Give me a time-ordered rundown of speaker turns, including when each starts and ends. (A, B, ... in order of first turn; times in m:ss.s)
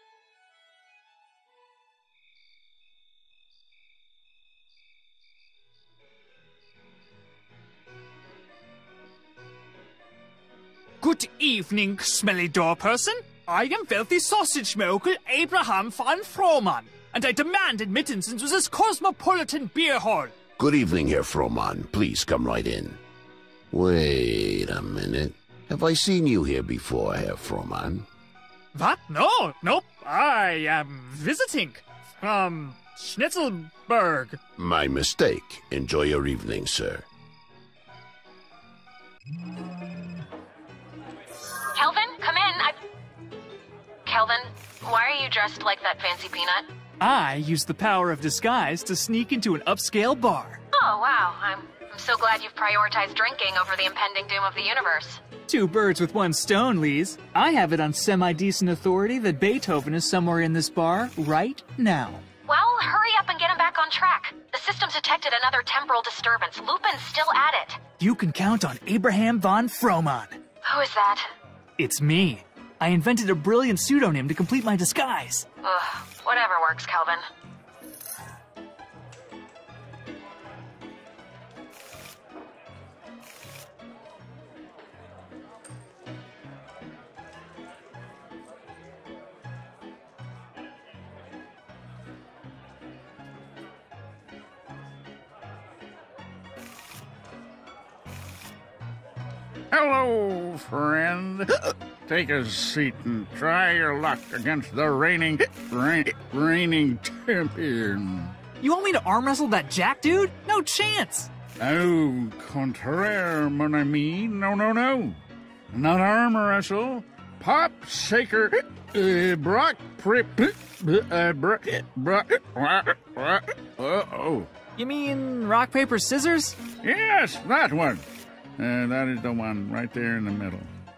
0:11.0-0:20.3 A
0:20.6-0:23.0 B
0:23.7-0:28.1 B
0:28.7-0:34.4 A
0:34.6-0:37.0 B
0:41.8-0:42.8 C
0:44.1-0:46.7 C
0:47.0-0:50.6 A
0:50.7-0:55.2 C
0:55.5-1:02.2 A
1:02.5-1:07.8 C
1:08.0-1:10.4 A
1:10.6-1:11.3 C
1:11.8-1:15.5 A
1:15.6-1:17.3 C
1:39.7-1:48.4 D
1:48.6-1:51.3 A
1:51.6-1:55.2 D
1:55.7-2:04.5 D
2:04.8-2:06.6 A
2:06.8-2:08.0 D
2:08.6-2:10.7 D